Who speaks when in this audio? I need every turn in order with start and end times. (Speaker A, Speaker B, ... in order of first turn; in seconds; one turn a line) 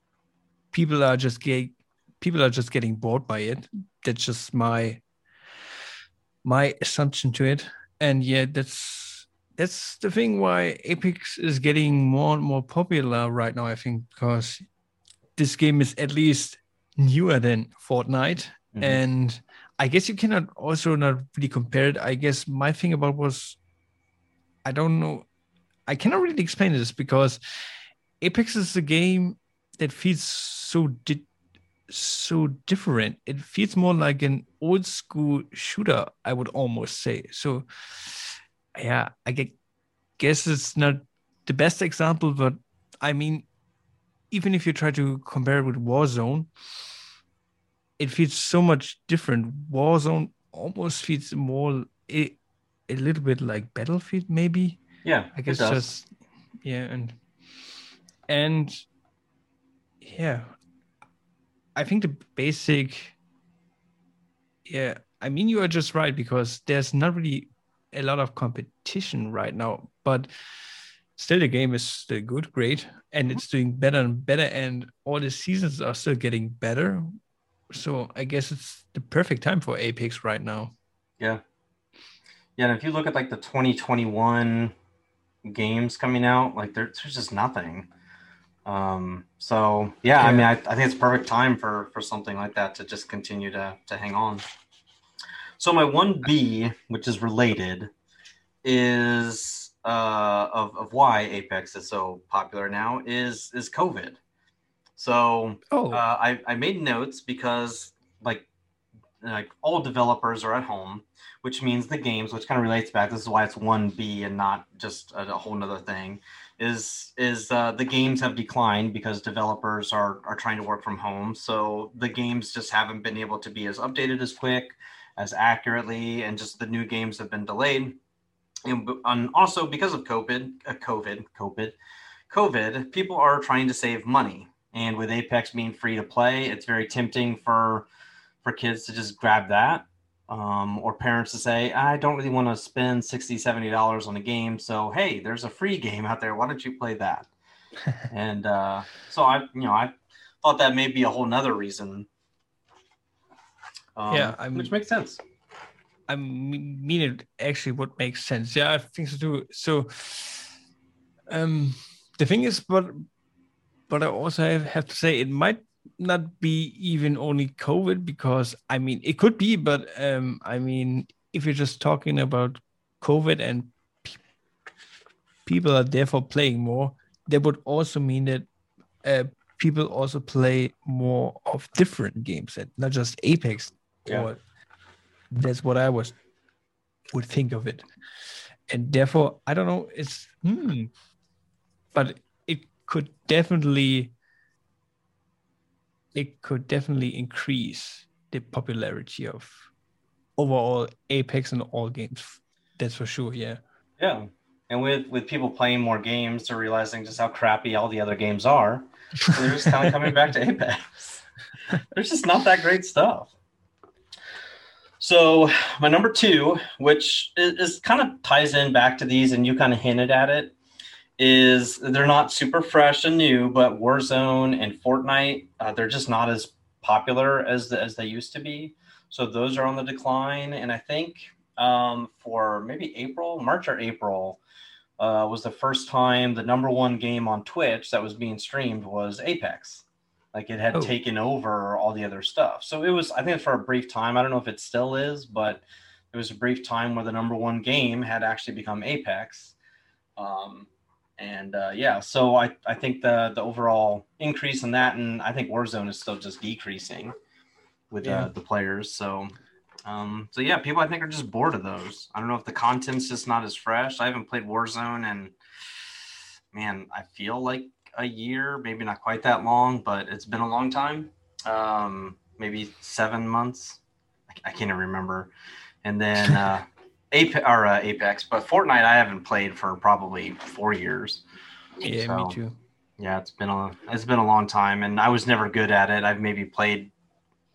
Speaker A: 0.7-5.0
Speaker A: 6.5-14.7
Speaker A: 15.4-23.6
Speaker B: 18.7-19.0
Speaker A: 24.6-25.3
Speaker A: 25.9-27.4
Speaker A: 28.2-31.3
Speaker A: 31.9-39.5
Speaker A: 40.2-43.5
Speaker A: 44.3-46.5
Speaker A: 48.0-54.8
Speaker B: 55.0-55.9
Speaker A: 55.3-56.1
Speaker A: 56.6-57.2
Speaker A: 58.3-58.9
Speaker A: 60.0-60.5
Speaker A: 61.8-63.2
Speaker A: 64.7-70.3
Speaker A: 71.2-77.1
Speaker A: 77.7-80.7
Speaker B: 82.6-84.8
Speaker B: 85.5-87.9
Speaker B: 88.7-94.4
Speaker A: 90.2-90.5
Speaker B: 95.6-97.9
Speaker B: 98.6-104.2
Speaker B: 105.0-108.5
Speaker A: 105.7-106.0
Speaker B: 109.2-128.0
Speaker B: 128.7-131.8
Speaker B: 132.3-137.9
Speaker B: 138.4-147.3
Speaker B: 148.1-152.1
Speaker B: 154.0-155.2
Speaker A: 154.1-154.7
Speaker A: 156.1-160.5
Speaker A: 161.3-163.1
Speaker A: 163.9-174.2
Speaker A: 175.5-178.5
Speaker A: 179.0-184.4
Speaker A: 185.3-186.2
Speaker A: 187.1-187.8
Speaker A: 188.7-190.9
Speaker A: 191.9-194.1
Speaker A: 196.1-199.7
Speaker A: 200.4-203.6
Speaker B: 204.0-211.2
Speaker B: 211.8-213.3
Speaker B: 215.0-220.6
Speaker B: 221.2-234.4
Speaker B: 235.0-249.6
Speaker B: 250.2-257.1
Speaker B: 257.9-259.3
Speaker A: 258.0-258.3
Speaker B: 259.9-265.4
Speaker B: 266.5-275.3
Speaker B: 275.8-281.2
Speaker A: 281.8-282.6
Speaker B: 282.0-282.4
Speaker B: 283.0-286.9